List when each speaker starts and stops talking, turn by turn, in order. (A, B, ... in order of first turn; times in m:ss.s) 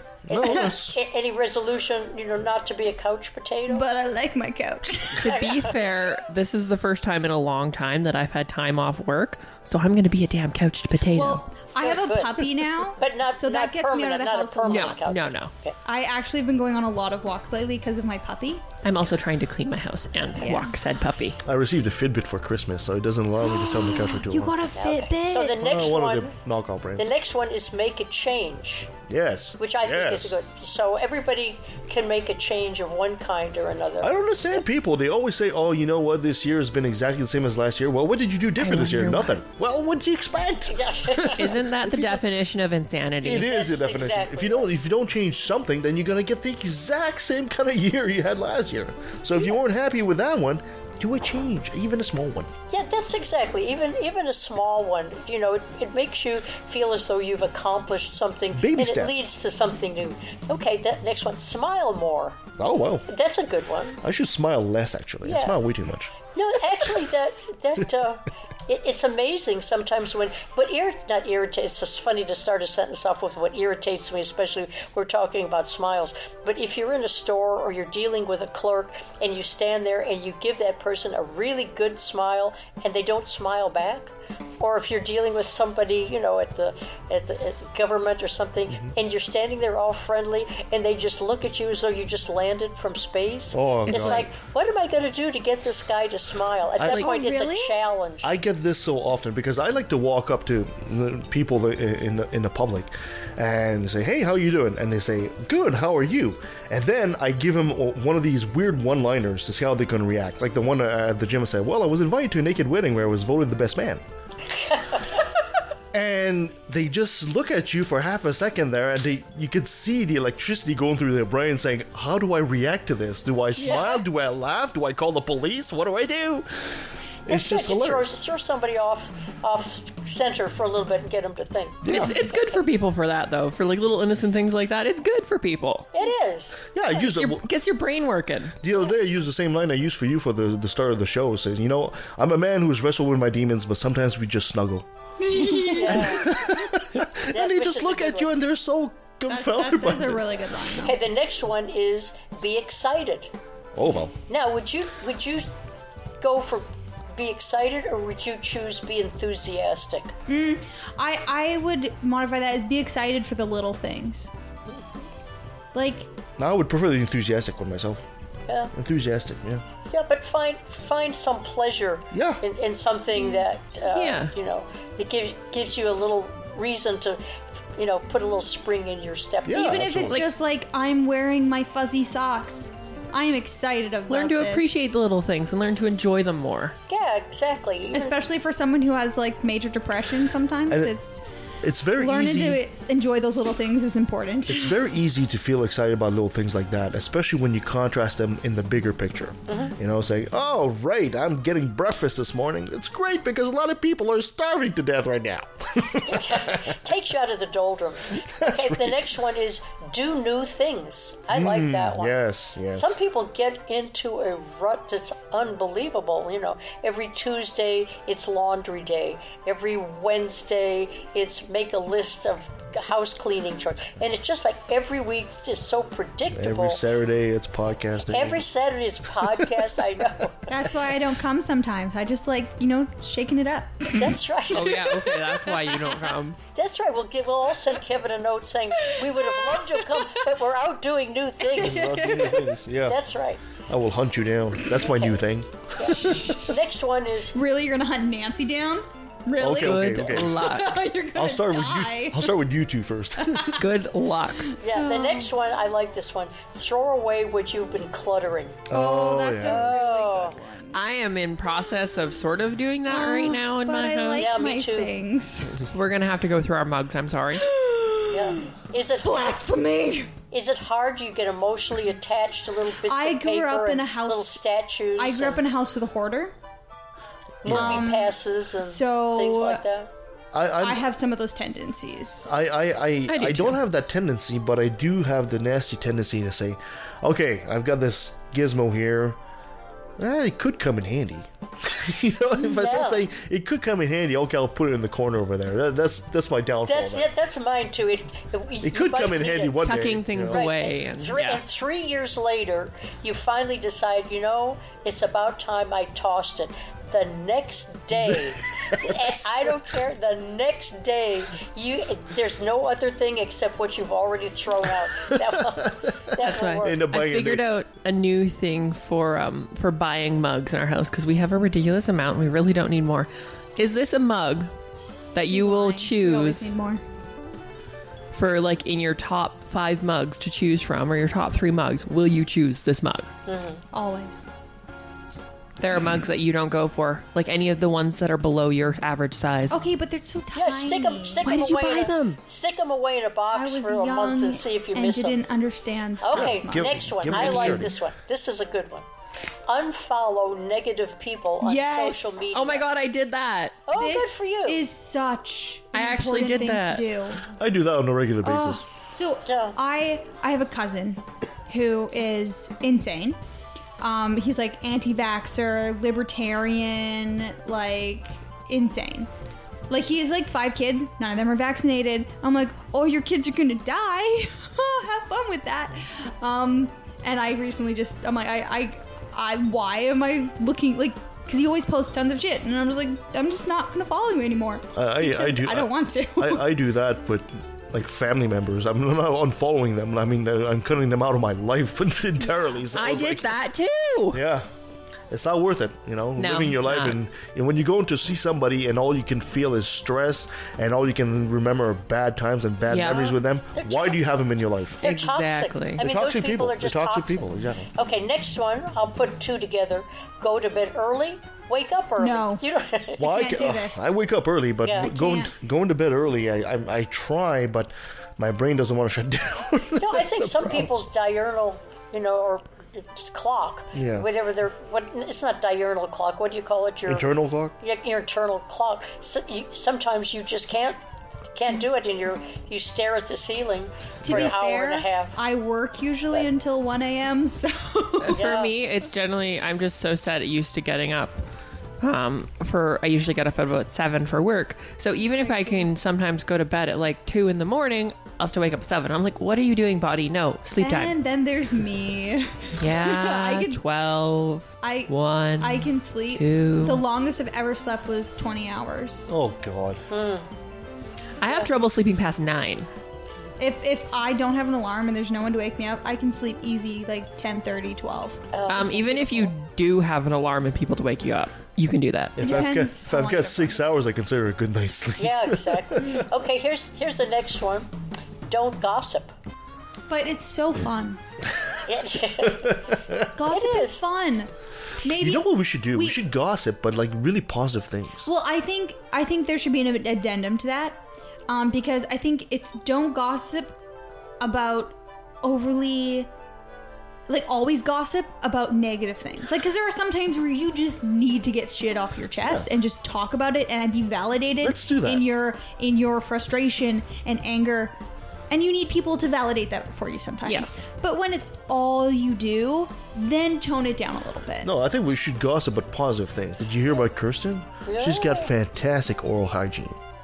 0:00.3-0:01.0 A
0:00.3-0:03.9 B
0:03.7-0:05.2 C
0:05.2-0:11.4 D
0:05.2-0:05.8 B
0:11.1-0:15.1 C
0:11.8-0:15.8 B
0:14.7-0:15.5 D
0:15.8-0:18.6 C
0:18.8-0:21.4 D
0:20.4-0:20.8 C
0:21.4-0:24.6 A
0:23.4-0:25.6 C
0:24.8-0:26.3 B
0:25.6-0:27.1 A
0:27.0-0:28.9 B
0:29.1-0:30.4 A
0:29.6-0:34.2 B
0:34.0-0:42.2 A
0:38.6-0:39.3 D
0:40.7-0:41.5 B
0:41.4-0:43.5 D
0:43.2-0:52.5 A
0:43.2-0:44.7 B
0:52.7-1:02.5 B
0:58.6-0:59.2 A
1:02.6-1:03.1 A
1:03.1-1:04.0 B
1:04.0-1:06.1 A
1:05.2-1:05.6 B
1:06.3-1:38.3 B
1:33.5-1:34.3 A
1:33.9-1:34.2 D
1:36.9-1:37.8 C
1:38.2-1:54.0 A
1:54.6-1:55.1 B
1:55.9-2:08.1 A
2:03.6-2:03.9 C
2:03.6-2:04.0 B
2:07.3-2:12.6 B
2:11.8-2:12.2 A
2:11.9-2:15.9 D
2:15.9-2:16.7 B
2:16.7-2:17.5 A
2:17.1-2:18.6 D
2:18.6-2:24.9 A
2:25.2-2:26.4 C
2:25.4-2:30.5 A
2:25.7-2:26.4 B
2:27.3-2:28.3 B
2:29.3-2:31.0 C
2:30.8-2:33.3 B
2:33.8-2:34.1 A
2:34.3-2:35.5 B
2:36.2-2:40.1 B
2:40.3-2:44.3 C
2:45.7-2:46.1 C
2:46.4-2:48.0 A
2:48.5-2:48.7 B
2:48.7-2:49.6 A
2:49.9-2:57.2 B
2:52.1-2:52.4 A
2:53.9-2:54.3 D
2:57.8-3:00.1 B
2:59.4-3:00.2 A
2:59.6-3:04.7 C
3:04.1-3:06.8 D
3:06.9-3:08.2 B
3:07.9-3:11.2 C
3:11.6-3:12.6 A
3:12.0-3:14.8 C
3:14.5-3:26.8 A
3:19.5-3:19.7 B
3:26.1-3:32.1 B
3:28.2-3:29.1 A
3:31.3-3:32.9 A
3:32.8-3:46.8 B
3:46.3-3:48.5 A
3:48.1-3:50.4 B
3:50.5-3:54.2 C
3:53.9-3:54.9 B
3:54.5-3:56.4 D
3:56.6-4:02.3 B
4:01.5-4:02.5 C
4:01.6-4:03.0 A
4:02.8-4:03.4 B
4:03.6-4:06.5 A
4:04.8-4:05.2 B
4:05.8-4:07.4 B
4:06.1-4:06.4 C
4:07.3-4:12.3 C
4:09.4-4:10.4 A
4:09.6-4:10.8 D
4:11.1-4:13.6 A
4:13.6-4:14.5 D
4:14.5-4:15.3 C
4:14.6-4:18.6 B
4:18.7-4:19.8 A
4:18.7-4:20.8 C
4:19.4-4:20.4 B
4:20.7-4:24.3 D
4:22.9-4:25.6 C
4:24.2-4:24.9 B
4:25.7-4:27.4 D
4:27.4-4:28.4 C
4:28.1-4:29.3 B
4:29.0-4:30.1 C
4:30.3-4:35.4 B
4:32.9-4:34.4 C
4:35.0-4:36.3 C
4:37.4-4:37.9 A
4:37.4-4:39.9 B
4:37.5-4:39.6 C
4:40.3-4:40.8 A
4:40.6-4:42.3 C
4:42.3-4:49.2 A
4:43.1-4:43.6 D
4:50.0-4:57.1 A
4:52.4-4:53.0 B
4:56.6-4:59.6 B
4:58.6-5:00.5 A
4:59.6-5:01.4 D
5:00.3-5:16.8 B
5:08.0-5:09.5 A
5:15.0-5:17.5 A
5:16.2-5:24.5 D
5:25.1-5:26.5 D
5:25.2-5:26.8 C
5:28.1-5:33.1 D
5:33.3-5:33.6 B
5:33.7-5:34.2 C
5:35.6-5:39.6 D
5:39.5-5:41.5 C
5:40.3-5:45.2 B
5:41.2-5:42.2 D
5:43.3-5:47.4 C
5:46.0-5:48.9 B
5:46.1-5:47.8 A
5:47.1-5:47.6 D
5:49.5-5:52.7 B
5:51.4-5:52.2 C
5:52.3-5:53.6 D
5:53.6-5:54.6 B
5:53.7-5:57.2 C
5:55.7-5:56.9 D
5:57.4-5:58.6 A
5:58.2-6:03.2 C
5:59.3-5:59.6 B
6:03.8-6:09.1 C
6:09.7-6:26.5 C
6:24.7-6:33.4 A
6:32.7-6:34.2 D
6:34.1-6:34.5 A
6:35.1-6:44.8 A
6:36.2-6:37.0 D
6:42.7-6:43.2 D
6:43.6-6:44.0 B
6:44.8-6:53.3 B
6:44.8-6:45.8 D
6:45.8-6:47.7 A
6:52.0-6:52.4 C
6:53.0-6:53.9 C
6:53.0-7:00.7 A
6:54.6-6:54.9 B
6:54.8-6:55.3 C
6:59.8-7:07.1 B
7:03.7-7:04.1 A
7:06.9-7:07.6 A
7:07.6-7:10.8 B
7:11.4-7:15.2 B
7:14.0-7:18.2 C
7:14.0-7:14.3 A
7:18.0-7:21.1 D
7:18.1-7:18.5 B
7:21.8-7:31.0 D
7:25.2-7:25.7 C
7:30.6-7:33.6 C
7:32.6-7:36.8 D
7:34.6-7:39.1 C
7:39.1-7:39.8 A
7:39.9-7:40.3 B
7:41.2-7:42.7 D
7:41.2-7:41.5 B
7:43.4-7:48.2 C
7:48.3-7:49.3 B
7:48.5-7:52.2 D
7:52.2-7:56.0 A
7:52.2-7:53.6 C
7:55.0-7:57.7 B
7:58.3-7:59.1 B
7:59.9-8:01.0 C
8:01.7-8:02.6 B
8:02.4-8:03.0 A
8:03.1-8:04.3 C
8:03.3-8:03.8 B
8:04.8-8:06.0 C
8:04.9-8:08.1 A
8:08.0-8:13.5 C
8:14.2-8:16.1 C
8:17.1-8:27.8 C
8:24.4-8:25.1 A
8:28.3-8:34.5 C
8:30.3-8:30.6 D
8:34.4-8:39.8 A
8:37.7-8:38.3 B